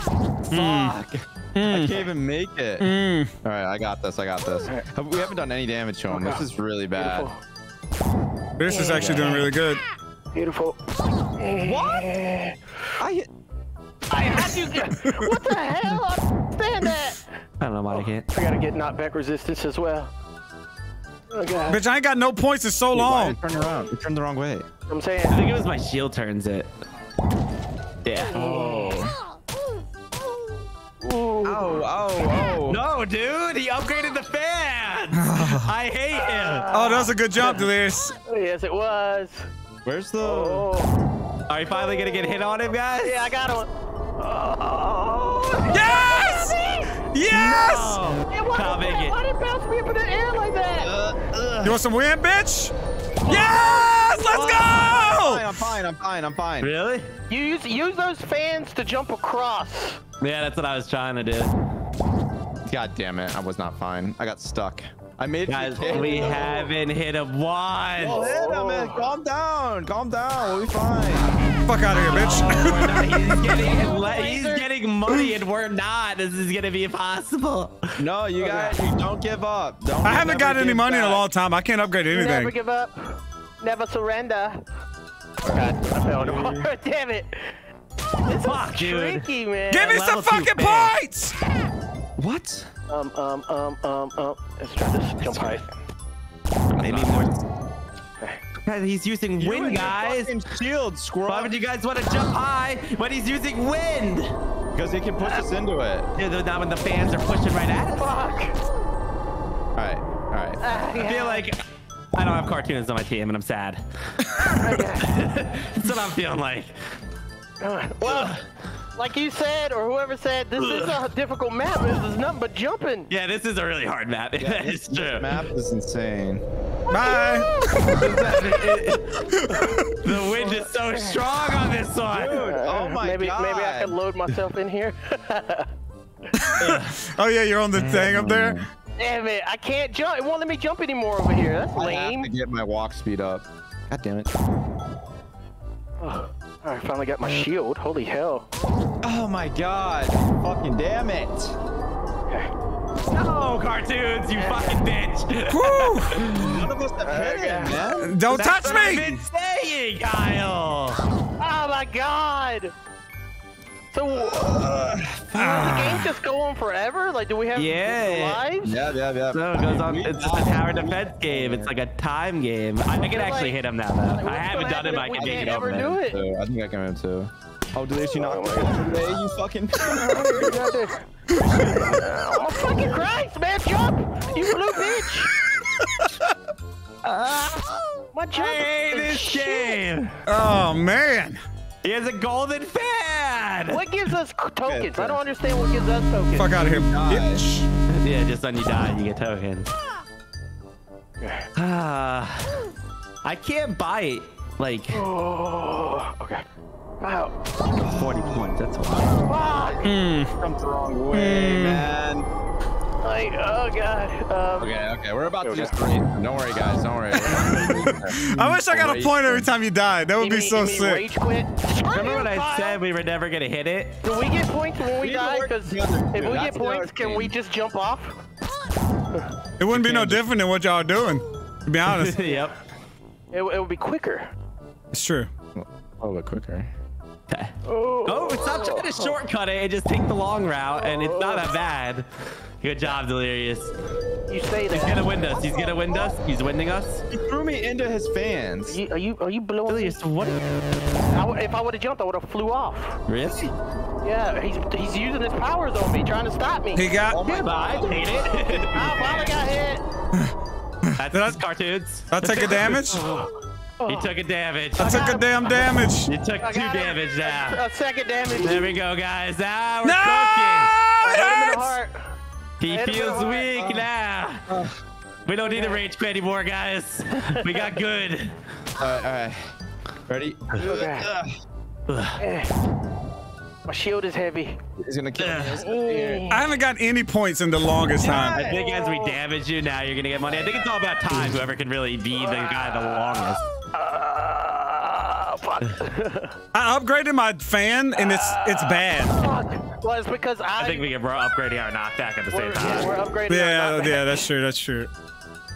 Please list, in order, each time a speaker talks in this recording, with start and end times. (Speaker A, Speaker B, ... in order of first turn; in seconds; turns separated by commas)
Speaker A: 0.5-7.3, Speaker B: 0.5-1.0, Speaker B: 1.6-2.1, Speaker B: 2.8-3.3, Speaker C: 6.1-7.4, Speaker B: 8.6-9.8, Speaker C: 8.7-9.5, Speaker D: 8.9-9.4, Speaker C: 10.3-10.8, Speaker C: 11.4-12.6, Speaker A: 11.6-12.1, Speaker A: 13.0-13.3, Speaker C: 14.1-17.2, Speaker B: 15.0-15.3, Speaker D: 17.6-18.2, Speaker C: 17.9-20.1, Speaker C: 21.3-21.8, Speaker B: 21.7-23.4, Speaker A: 22.9-24.7, Speaker C: 24.9-25.4, Speaker D: 25.3-26.7, Speaker D: 28.1-28.4, Speaker A: 28.3-29.1, Speaker C: 28.3-29.0, Speaker C: 31.0-31.8, Speaker A: 31.4-32.8, Speaker D: 32.7-36.7, Speaker B: 35.2-35.7, Speaker C: 36.2-37.7, Speaker B: 36.7-38.1, Speaker C: 38.3-39.5, Speaker A: 39.9-40.7, Speaker C: 40.2-40.9, Speaker D: 41.5-43.4, Speaker C: 41.7-42.5, Speaker C: 43.0-47.0, Speaker B: 45.7-48.0, Speaker D: 47.3-49.2, Speaker C: 48.3-50.9, Speaker A: 50.8-51.8, Speaker B: 51.6-52.7, Speaker B: 53.3-55.7, Speaker A: 53.3-56.7, Speaker D: 56.6-57.1, Speaker C: 57.3-60.0, Speaker D: 60.2-61.5, Speaker A: 62.6-66.6, Speaker D: 65.5-68.2, Speaker C: 65.8-66.7, Speaker A: 68.0-71.3, Speaker C: 68.0-69.1, Speaker B: 71.7-73.4, Speaker D: 71.9-77.9, Speaker C: 73.4-74.7, Speaker A: 78.0-81.3, Speaker C: 78.4-78.8, Speaker B: 80.0-82.5, Speaker C: 82.1-84.6, Speaker A: 85.4-86.7, Speaker C: 85.4-87.5, Speaker C: 88.2-90.1, Speaker D: 88.4-91.0, Speaker B: 89.7-91.4, Speaker A: 92.2-92.7, Speaker C: 92.9-95.7, Speaker D: 96.7-97.4, Speaker A: 96.8-97.5, Speaker D: 98.7-100.4, Speaker A: 99.4-101.5, Speaker D: 101.3-104.3, Speaker A: 104.7-106.1, Speaker D: 106.2-108.1, Speaker C: 108.0-108.6, Speaker A: 109.8-110.8, Speaker C: 110.6-111.5, Speaker D: 111.0-111.6, Speaker D: 112.2-113.8, Speaker C: 114.6-115.1, Speaker D: 115.0-116.7, Speaker C: 117.6-118.4, Speaker D: 118.0-118.4, Speaker C: 119.0-123.1, Speaker D: 120.6-121.0, Speaker D: 123.1-125.3, Speaker A: 124.4-126.4, Speaker C: 126.9-128.0, Speaker B: 126.9-128.0, Speaker D: 127.9-129.2, Speaker A: 128.0-128.5, Speaker B: 129.2-130.0, Speaker D: 130.0-132.5, Speaker C: 130.4-131.2, Speaker A: 132.1-134.0, Speaker C: 132.3-135.7, Speaker B: 136.4-138.6, Speaker D: 136.6-136.9, Speaker A: 137.7-138.7, Speaker C: 139.0-142.3, Speaker A: 141.7-144.3, Speaker C: 146.0-148.5, Speaker A: 149.0-151.6, Speaker D: 153.1-156.6, Speaker C: 154.3-154.9, Speaker B: 155.5-156.4, Speaker A: 156.3-158.8, Speaker C: 157.0-157.8, Speaker B: 158.0-159.1, Speaker D: 158.3-161.0, Speaker C: 158.4-158.8, Speaker C: 161.4-162.7, Speaker C: 163.9-164.6, Speaker A: 164.1-165.8, Speaker C: 165.3-168.8, Speaker B: 165.3-166.1, Speaker D: 167.6-168.4, Speaker A: 168.6-171.7, Speaker D: 169.3-176.0, Speaker C: 172.9-173.6, Speaker C: 174.2-176.2, Speaker A: 174.9-180.7, Speaker C: 178.1-179.0, Speaker C: 179.8-185.3, Speaker B: 181.4-181.9, Speaker A: 181.5-182.8, Speaker B: 185.8-186.2, Speaker C: 188.1-189.8, Speaker D: 188.3-190.2, Speaker B: 190.3-191.4, Speaker D: 191.8-193.8, Speaker C: 193.7-196.6, Speaker A: 194.7-195.2, Speaker B: 196.3-197.7, Speaker A: 196.4-197.4, Speaker D: 197.9-199.7, Speaker C: 201.2-201.5, Speaker D: 201.6-202.5, Speaker D: 203.2-205.0, Speaker C: 204.9-206.4, Speaker C: 207.0-207.3, Speaker D: 207.8-209.2, Speaker A: 207.8-208.4, Speaker C: 209.2-209.9, Speaker B: 209.8-210.3, Speaker A: 210.4-212.3, Speaker B: 211.1-211.8, Speaker C: 213.0-214.8, Speaker A: 214.6-219.5, Speaker C: 215.4-215.7, Speaker B: 217.2-221.1, Speaker C: 220.2-222.8, Speaker D: 221.9-224.0, Speaker C: 224.0-228.1, Speaker A: 225.0-227.3, Speaker B: 229.6-232.2, Speaker A: 229.7-230.2, Speaker D: 231.9-232.6, Speaker C: 232.1-232.5, Speaker C: 233.3-234.3, Speaker B: 234.9-235.3, Speaker A: 235.6-236.7, Speaker D: 237.3-237.5, Speaker C: 237.7-239.2, Speaker D: 238.1-242.1, Speaker C: 240.9-241.4, Speaker D: 242.6-243.7, Speaker C: 244.3-245.1, Speaker D: 244.7-247.0, Speaker A: 245.3-246.2, Speaker A: 247.1-248.8, Speaker C: 248.7-250.0, Speaker D: 249.7-250.6, Speaker C: 251.1-253.0, Speaker D: 253.1-253.5, Speaker C: 254.0-257.4, Speaker B: 256.8-257.2, Speaker A: 257.1-258.3, Speaker D: 257.2-259.2, Speaker C: 258.7-259.8, Speaker B: 260.9-261.4, Speaker D: 261.0-263.1, Speaker B: 262.1-263.1, Speaker C: 262.9-264.1, Speaker D: 263.9-267.6, Speaker C: 264.8-265.6, Speaker B: 264.8-266.1, Speaker C: 266.4-268.7, Speaker D: 268.4-270.8, Speaker B: 269.8-271.8, Speaker C: 271.0-272.1, Speaker D: 272.6-274.4, Speaker C: 272.6-273.8, Speaker A: 274.5-274.8, Speaker D: 275.3-278.3, Speaker C: 275.4-275.8, Speaker C: 277.4-277.7, Speaker A: 278.8-279.5, Speaker A: 280.1-281.4, Speaker C: 280.6-281.1, Speaker D: 281.9-282.2, Speaker C: 282.2-282.5, Speaker C: 283.7-284.6, Speaker A: 284.8-286.3, Speaker D: 285.2-285.6, Speaker C: 285.6-286.5, Speaker B: 286.3-288.4, Speaker A: 288.0-288.8, Speaker D: 288.3-293.4, Speaker C: 288.5-289.2, Speaker A: 290.3-290.7, Speaker C: 292.1-296.4, Speaker B: 296.5-299.2, Speaker C: 297.9-300.9, Speaker D: 300.6-303.0, Speaker C: 302.3-304.3, Speaker B: 303.3-304.9